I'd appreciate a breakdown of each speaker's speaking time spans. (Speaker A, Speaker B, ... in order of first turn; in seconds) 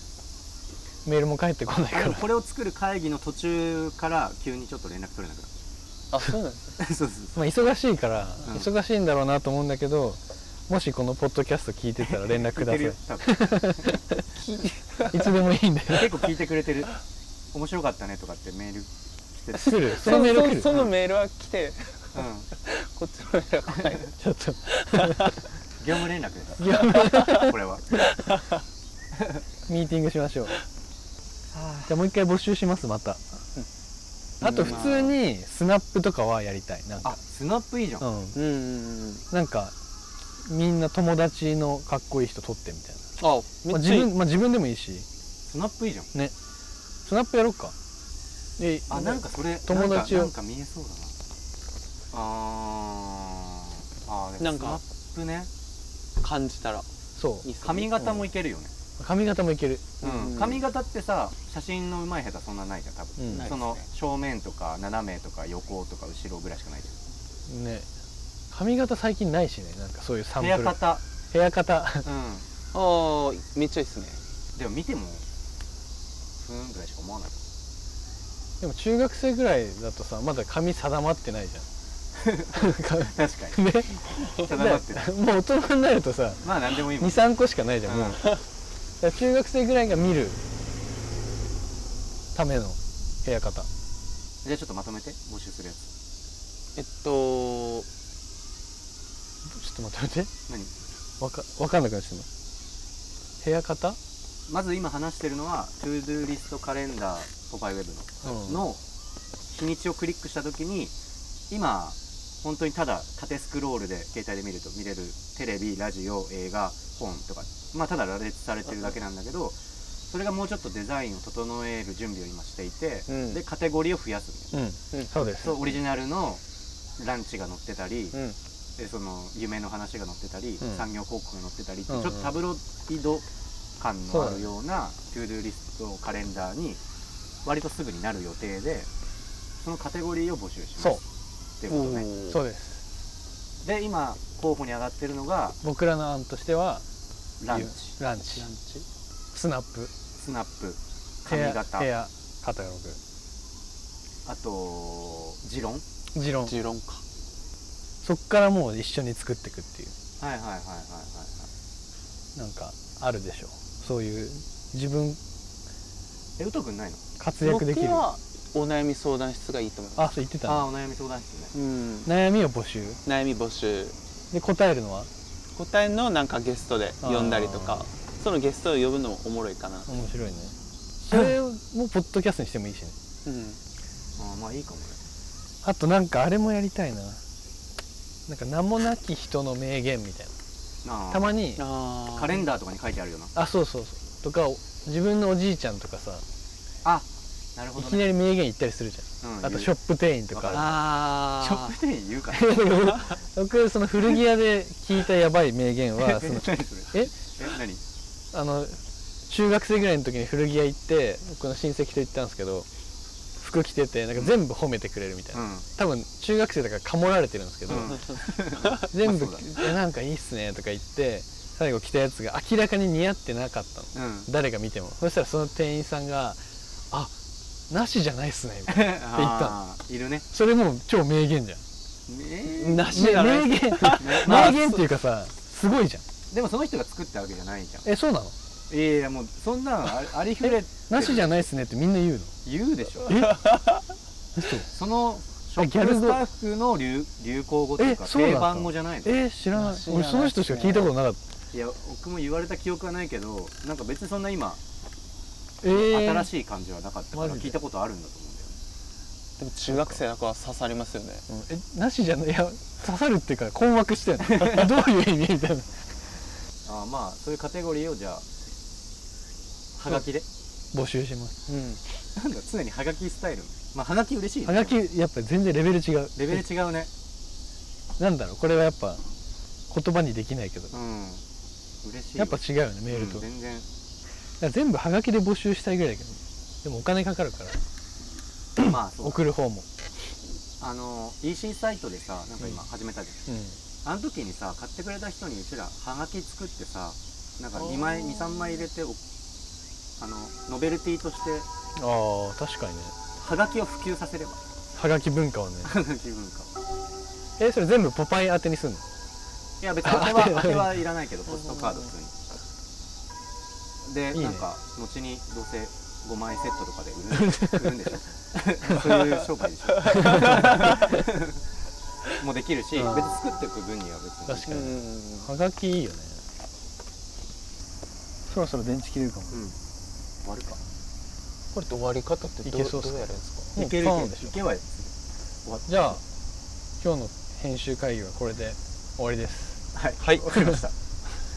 Speaker A: 1.0-2.2, 7.3-14.2, 15.0-16.1, 19.6-20.8, 24.2-25.4, 26.6-27.5, 29.7-30.6, 31.9-33.2, 34.4-37.2, 38.0-38.4, 39.3-39.7, 40.4-43.0, 43.7-45.0, 47.0-47.7, 48.6-50.3, 57.1-57.5, 59.0-59.9, 63.2-63.5, 67.5-67.8, 68.5-72.0, 78.6-81.7, 82.5-86.4, 87.0-88.2, 89.0-90.4, 92.3-93.7, 99.5-100.3, 101.2-102.3, 103.4-104.0, 108.2-108.6, 124.5-125.6, 131.9-132.3, 134.1-134.5, 142.3-142.8, 145.6-146.8, 147.5-148.5, 149.3-149.9, 151.2-153.0, 156.1-156.6, 158.0-159.9, 162.3-165.2, 167.2-168.1, 170.0-170.7, 172.1-173.0, 174.3-175.1, 177.0-177.9, 179.9-182.9, 185.6-187.2, 188.3-190.3, 191.1-191.6, 193.3-196.2, 197.8-200.8, 202.3-207.1, 208.3-212.7, 213.4-218.2, 218.8-226.4, 227.7-229.6, 230.3-231.6, 232.6-236.0, 237.8-238.3, 240.4-242.3, 243.0-243.4, 244.3-244.7, 245.6-246.2, 247.8-251.2, 255.6-256.3, 257.1-257.5, 259.7-260.0, 261.3-265.7, 270.7-271.4, 274.4-276.4, 278.0-279.0, 279.7-280.7, 282.2-283.2, 284.4-287.6, 288.6-289.6, 293.3-293.6, 301.8-302.9, 304.8-305.7, 307.4-308.8, 309.8-310.7, 314.1-314.4, 317.2-317.7, 320.0-320.4, 322.8-323.2, 324.3-326.2, 328.3-329.4, 332.4-334.3, 335.7-336.0, 336.8-339.6
Speaker B: 1.9-5.5, 6.8-7.3, 8.4-8.7, 12.0-13.8, 15.9-17.0, 17.5-20.9, 22.1-22.5, 25.8-27.8, 31.5-32.0, 34.4-35.1, 37.0-38.0, 45.5-46.1, 48.9-51.1, 52.1-55.5, 57.6-58.7, 60.0-67.0, 70.4-71.0, 72.0-72.4, 74.5-75.2, 76.4-77.4, 82.2-83.6, 84.2-85.1, 86.4-87.2, 87.8-88.2, 94.4-95.9, 104.5-108.8, 109.5-110.9, 111.5-119.5, 120.1-124.5, 125.2-126.4, 127.0-128.2, 128.8-133.2, 133.8-136.8, 137.4-138.9, 139.6-141.0, 141.6-142.1, 143.6-145.6, 147.4-147.9, 150.2-151.9, 154.2-155.8, 160.2-161.5, 166.4-167.0, 170.4-171.5, 184.2-185.1, 190.8-191.3, 192.1-193.3, 196.8-198.1, 199.2-199.7, 200.3-203.0, 206.0-207.8, 215.3-215.6, 217.7-219.6, 223.9-224.3, 228.7-230.3, 232.1-233.2, 234.0-234.8, 236.3-237.9, 238.7-241.4, 242.4-243.2, 244.7-249.2, 251.5-254.6, 255.7-258.6, 264.4-264.6, 266.6-268.3, 269.8-270.2, 272.1-274.8, 276.1-276.9, 280.7-281.2, 281.8-282.4, 282.9-283.6, 288.6-289.2, 290.6-293.2, 293.8-299.0, 300.0-301.5, 303.2-304.4, 305.6-306.5, 309.6-312.1, 313.8-321.4, 322.1-324.7, 329.3-329.6, 330.2-330.6, 333.6-334.8, 335.4-335.7, 339.7-340.7
Speaker C: 6.1-6.8, 14.4-15.3, 19.9-24.1, 24.8-25.3, 26.9-27.3, 28.3-28.5, 34.4-35.0, 38.3-39.2, 43.2-44.1, 54.4-54.8, 56.2-56.9, 57.4-58.3, 60.0-60.6, 63.3-63.8, 72.7-74.2, 96.7-97.9, 123.1-123.4, 141.7-142.4, 148.3-148.8, 156.4-157.0, 167.4-170.1, 171.5-172.1, 173.0-173.9, 175.5-179.9, 183.2-183.6, 191.6-192.5, 201.3-201.7, 232.7-234.7, 243.3-243.8, 249.5-250.9, 259.4-261.2, 271.5-271.8, 319.9-320.8, 324.4-325.3, 331.5-333.4, 340.0-340.2